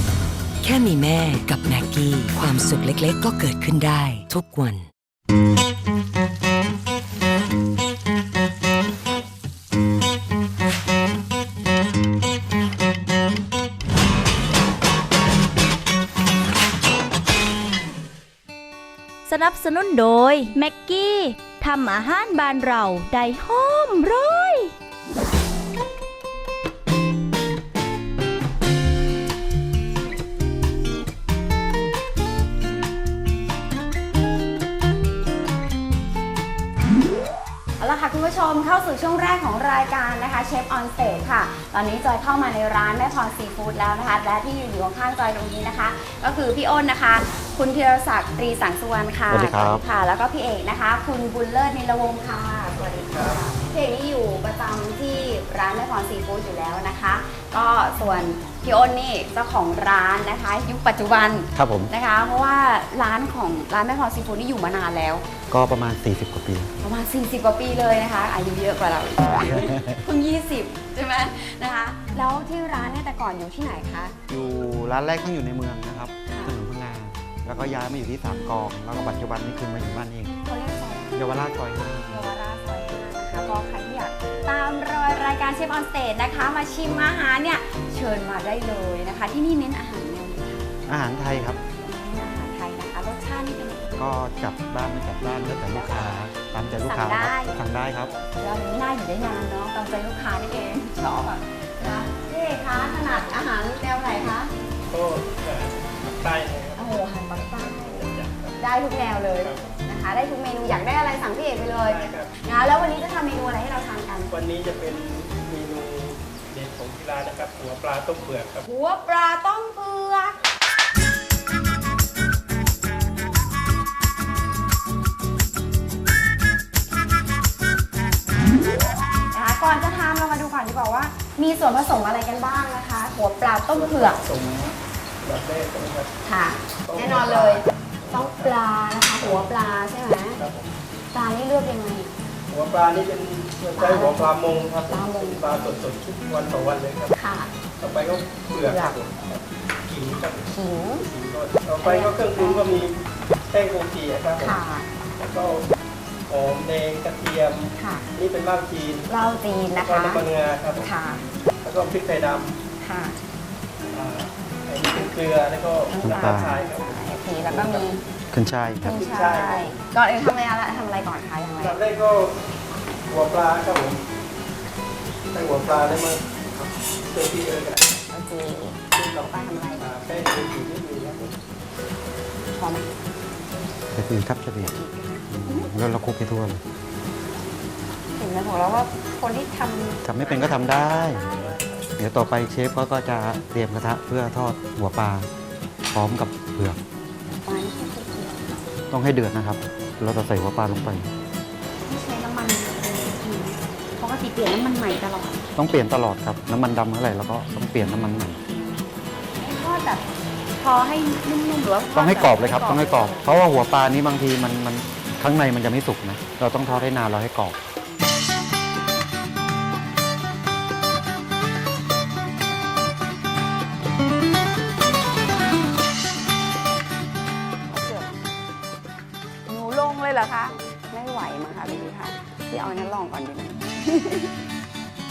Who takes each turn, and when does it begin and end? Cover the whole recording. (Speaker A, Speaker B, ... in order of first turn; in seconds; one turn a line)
Speaker A: 0.6-4.9
Speaker B: 19.3-24.7
Speaker C: 37.8-65.3
Speaker D: 49.3-49.8
Speaker E: 52.7-53.5
Speaker D: 61.6-61.9
Speaker D: 65.5-66.7
Speaker C: 66.8-74.2
Speaker D: 69.5-70.0
Speaker D: 74.3-80.3
Speaker C: 76.3-76.6
Speaker C: 80.5-81.2
Speaker D: 81.2-82.2
Speaker C: 82.1-94.0
Speaker D: 90.9-91.6
Speaker D: 94.0-98.1
Speaker C: 95.5-97.6
Speaker C: 98.3-104.5
Speaker E: 104.9-108.6
Speaker C: 106.8-114.3
Speaker E: 109.4-109.7
Speaker E: 111.8-112.3
Speaker E: 114.3-118.7
Speaker C: 118.7-120.4
Speaker C: 129.3-134.2
Speaker E: 133.7-136.1
Speaker C: 136.2-140.4
Speaker E: 136.9-138.5
Speaker E: 139.2-139.5
Speaker E: 140.4-140.8
Speaker C: 141.1-142.1
Speaker E: 142.5-147.2
Speaker C: 143.8-144.3
Speaker C: 144.9-145.4
Speaker C: 147.2-147.5
Speaker E: 147.8-154.6
Speaker C: 148.7-149.0
Speaker C: 150.5-151.1
Speaker C: 151.8-152.8
Speaker C: 154.4-155.0
Speaker E: 155.2-155.7
Speaker E: 156.3-159.1
Speaker C: 157.8-158.1
Speaker C: 159.1-160.3
Speaker E: 159.8-160.9
Speaker C: 160.8-161.2
Speaker E: 161.6-162.6
Speaker C: 162.8-163.2
Speaker E: 163.9-167.9
Speaker C: 164.8-165.2
Speaker C: 165.9-168.0
Speaker D: 166.0-166.6
Speaker D: 168.3-168.9
Speaker E: 168.8-169.8
Speaker C: 168.8-171.8
Speaker E: 171.6-172.4
Speaker E: 173.1-174.0
Speaker E: 175.3-177.9
Speaker C: 178.1-179.9
Speaker E: 179.1-181.4
Speaker C: 182.6-182.9
Speaker D: 183.9-184.8
Speaker C: 184.6-185.7
Speaker D: 185.3-186.6
Speaker C: 188.2-191.6
Speaker D: 190.1-191.3
Speaker E: 190.1-191.8
Speaker D: 192.0-195.3
Speaker D: 195.9-196.8
Speaker C: 197.4-198.6
Speaker D: 198.9-201.1
Speaker C: 201.9-205.5
Speaker D: 205.6-208.4
Speaker C: 208.5-210.1
Speaker C: 210.6-213.4
Speaker D: 211.9-217.6
Speaker C: 216.6-216.9
Speaker C: 227.7-228.3
Speaker C: 229.5-234.3